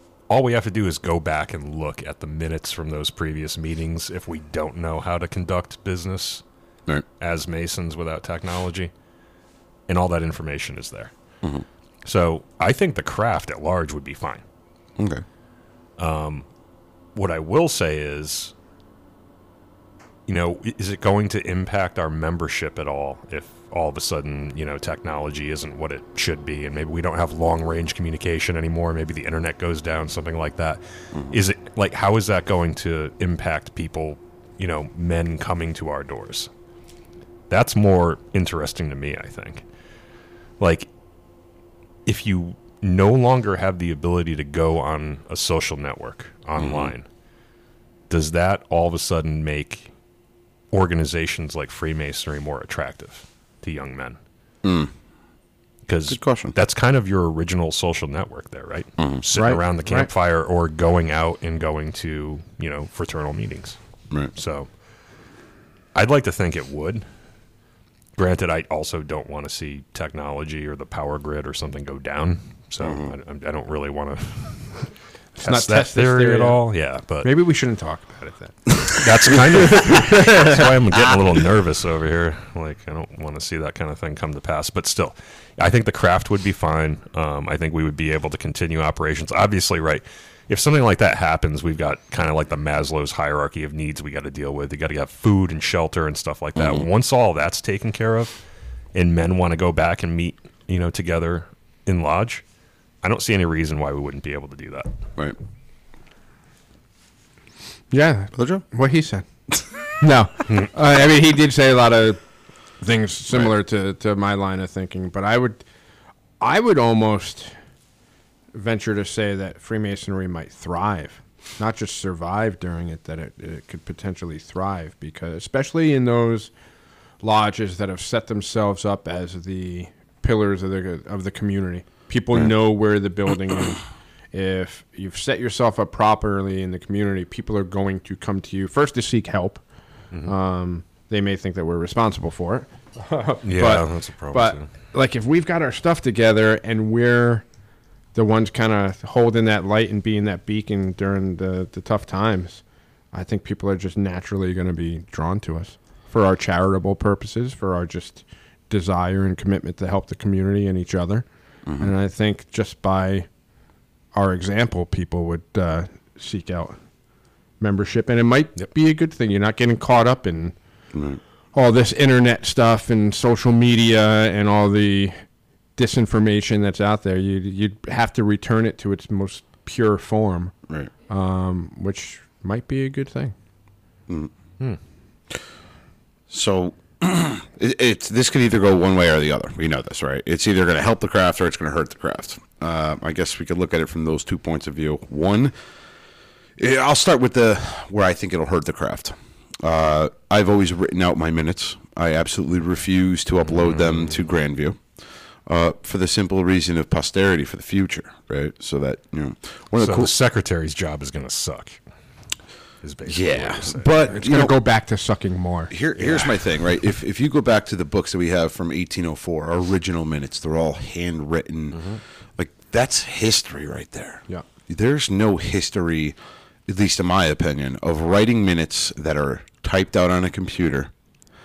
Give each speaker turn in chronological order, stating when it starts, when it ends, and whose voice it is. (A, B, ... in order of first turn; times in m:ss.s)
0:00.3-0:06.4 A
0:07.2-0:08.9 A
0:09.9-0:11.1 A
0:12.0-0:14.4 A
0:15.0-0:15.2 B
0:16.0-0:16.4 A
0:17.1-0:18.5 A
0:20.3-0:36.5 A
0:31.1-0:31.4 B
0:37.5-0:39.6 A
0:40.6-0:40.9 A
0:42.0-0:47.0 A
0:46.6-0:46.9 B
0:48.1-0:49.9 A
0:50.7-0:54.2 A
0:54.6-0:54.9 B
0:55.8-1:03.8 A
0:56.1-0:56.6 B
0:59.0-0:59.2 B
0:59.3-1:00.1 C
1:04.3-1:04.7 A
1:05.9-1:07.0 A
1:08.2-1:17.3 A
1:12.8-1:13.1 B
1:15.4-1:16.6 C
1:17.2-1:18.7 C
1:18.8-1:38.4 A
1:19.3-1:20.6 C
1:36.6-1:36.8 B
1:38.9-1:42.4 A
1:43.0-1:44.9 A
1:47.9-1:49.2 C
1:48.3-1:48.6 B
1:50.0-1:52.2 C
1:52.8-1:55.6 C
1:56.4-1:57.5 C
1:58.5-2:06.5 C
2:07.2-2:19.6 C
2:20.2-2:27.4 C
2:23.4-2:24.6 A
2:28.1-2:41.2 C
2:41.6-2:41.9 B
2:41.8-2:43.3 C
2:44.1-2:46.8 C
2:47.6-2:50.6 C
2:50.9-2:51.2 B
2:51.5-2:55.1 C
2:55.8-3:00.5 C
3:01.1-3:03.3 C
3:04.1-3:04.3 B
3:06.3-3:15.5 B
3:16.6-3:24.8 B
3:23.5-3:24.2 A
3:25.5-3:30.1 B
3:29.8-3:31.8 A
3:32.8-3:34.2 A
3:33.0-3:34.6 B
3:34.1-3:35.7 C
3:35.7-3:50.9 B
3:36.0-3:36.3 A